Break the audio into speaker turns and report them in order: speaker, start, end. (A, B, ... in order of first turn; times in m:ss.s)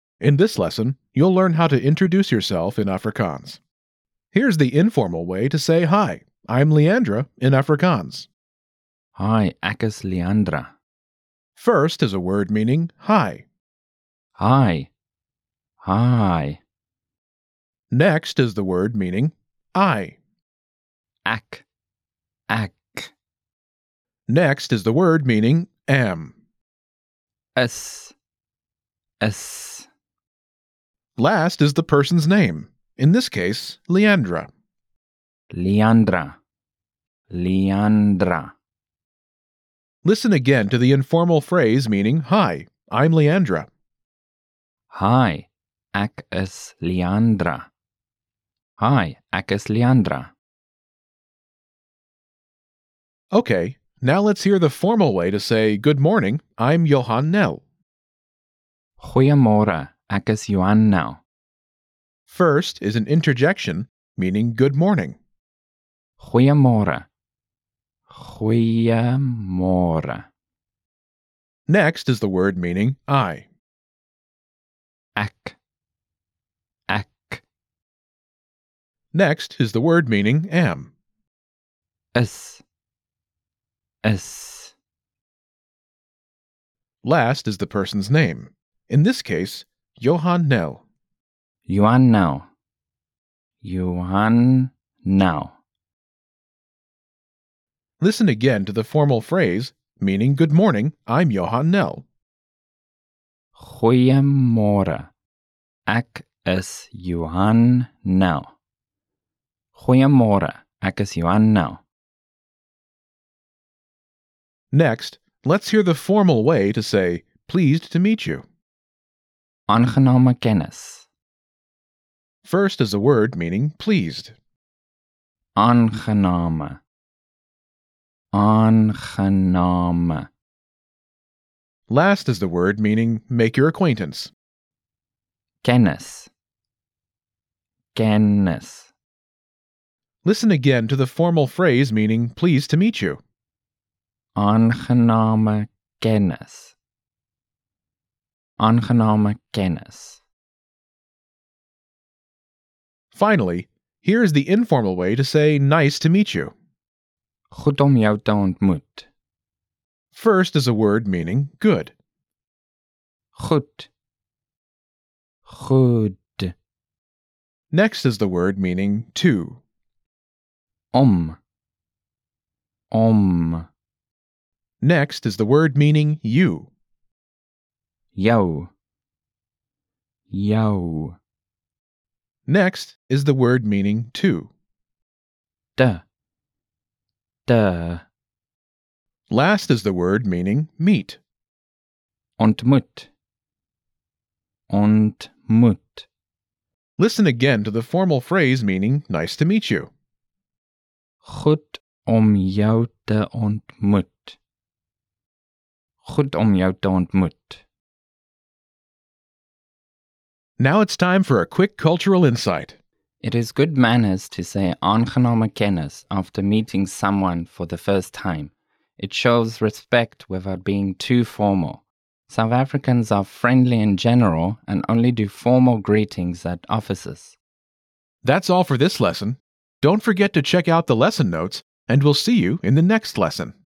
0:00.2-0:03.6 A
0:04.3-0:08.3 A
0:09.2-0:10.8 B
0:11.6-0:13.5 A
0:14.4-0:14.9 B
0:15.8-0:16.6 B
0:17.9-0:20.2 A
0:21.2-0:21.6 B
0:22.5-0:23.1 B
0:24.3-0:26.4 A
0:27.6-0:28.2 B
0:29.2-0:29.9 B
0:31.2-0:34.5 A
0:35.5-0:36.4 B
0:37.3-0:38.5 B
0:40.0-0:43.7 A
0:44.9-0:47.7 B
0:48.8-0:50.3 B
0:53.3-0:57.6 A
0:59.0-1:01.2 B
1:02.3-1:05.2 A
1:06.2-1:07.1 B
1:08.1-1:10.3 B
1:11.7-1:13.5 A
1:15.2-1:15.6 B
1:16.9-1:17.4 B
1:19.1-1:20.9 A
1:22.2-1:22.6 B
1:24.0-1:24.7 B
1:27.0-1:30.8 A
1:31.7-1:32.5 B
1:33.6-1:35.6 B
1:38.0-1:42.0 A
1:43.6-1:45.1 B
1:45.9-1:48.6 B
1:49.7-1:51.8 B
1:54.7-1:58.5 A
1:59.7-2:01.1 B
2:02.4-2:04.4 A
2:05.6-2:06.8 B
2:08.3-2:10.3 B
2:11.9-2:14.3 A
2:15.6-2:16.3 B
2:18.0-2:18.9 B
2:20.2-2:23.2 A
2:24.4-2:26.8 B
2:28.6-2:30.2 B
2:33.1-2:36.5 A
2:37.5-2:39.1 B
2:40.1-2:41.9 A
2:43.4-2:43.9 B
2:45.5-2:46.5 B
2:47.7-2:49.6 A
2:50.9-2:51.4 B
2:52.9-2:53.7 B
2:54.8-2:56.7 A
2:58.2-2:58.7 B
3:00.3-3:01.2 B
3:02.5-3:04.5 A
3:05.8-3:06.0 B
3:07.5-3:08.0 B
3:09.3-3:11.2 A
3:12.4-3:13.1 B
3:14.7-3:16.1 B
3:17.0-3:19.9 A
3:21.2-3:24.4 B
3:26.0-3:27.6 B
3:30.6-3:32.8 A
3:33.2-3:47.4 B
3:48.2-3:53.6 A